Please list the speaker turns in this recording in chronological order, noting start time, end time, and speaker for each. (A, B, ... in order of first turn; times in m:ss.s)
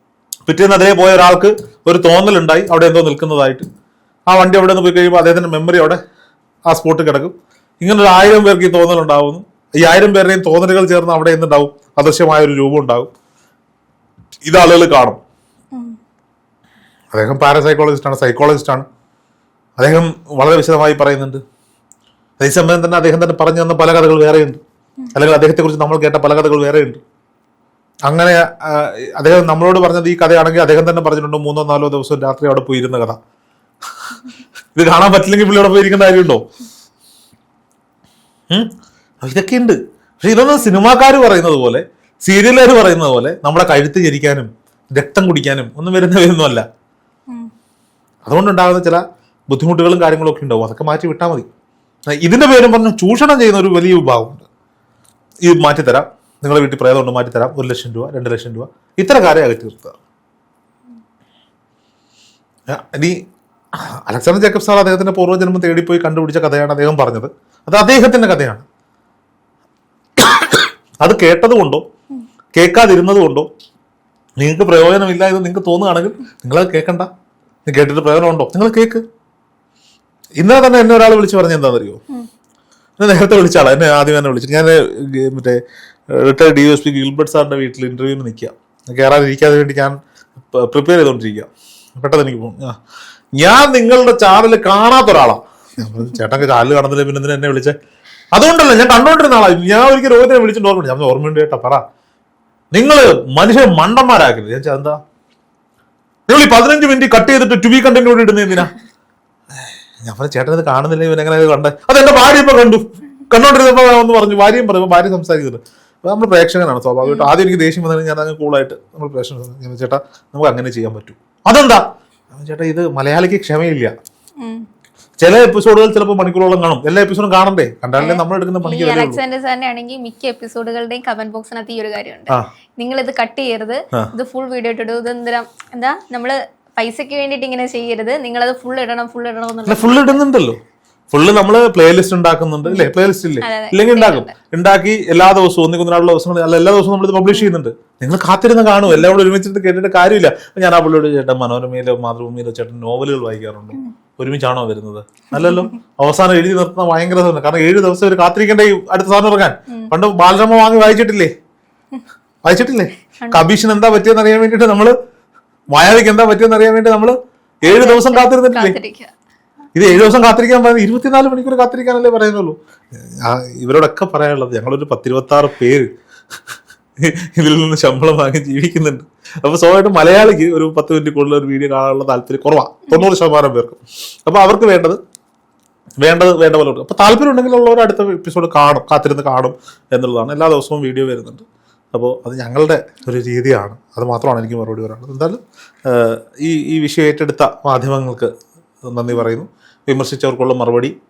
0:00.5-0:03.7 A
0:04.3-0:06.0 A
0:06.7-0:13.1 A
0:14.4-0:15.2 A
0:17.1-0:18.8 A
0:19.8-0:21.4 A
0:22.4-0:24.6 A
0:25.1-0:27.0 A
0:28.1-0:33.2 A
0:34.8-0:36.4 A
0:39.2-0:46.7 A
0:48.3-0:51.5 A
0:52.1-0:54.5 A
0:55.4-1:00.0 A
1:02.7-1:03.2 A
1:03.7-1:08.6 A
1:10.2-1:11.8 A
1:12.5-1:13.5 A
1:14.4-1:17.1 A
1:17.7-1:19.0 A
1:20.4-1:22.0 A
1:23.0-1:25.6 A
1:26.1-1:32.8 A
1:33.4-1:37.8 A
1:38.3-1:41.8 A
1:42.7-1:45.0 A
1:46.3-1:48.7 A
1:50.0-2:03.9 A
1:57.0-1:57.3 B
2:04.4-2:04.7 B
2:05.2-2:09.2 A
2:08.0-2:20.2 B
2:19.7-2:20.6 A
2:21.1-2:41.3 A
2:22.6-2:24.3 B
2:35.3-2:35.8 B
2:42.4-2:44.9 A
2:45.7-2:48.8 A
2:47.6-2:49.1 B
2:49.8-2:55.9 A
2:57.0-3:05.0 A
3:06.0-3:18.3 A
3:18.8-3:20.9 A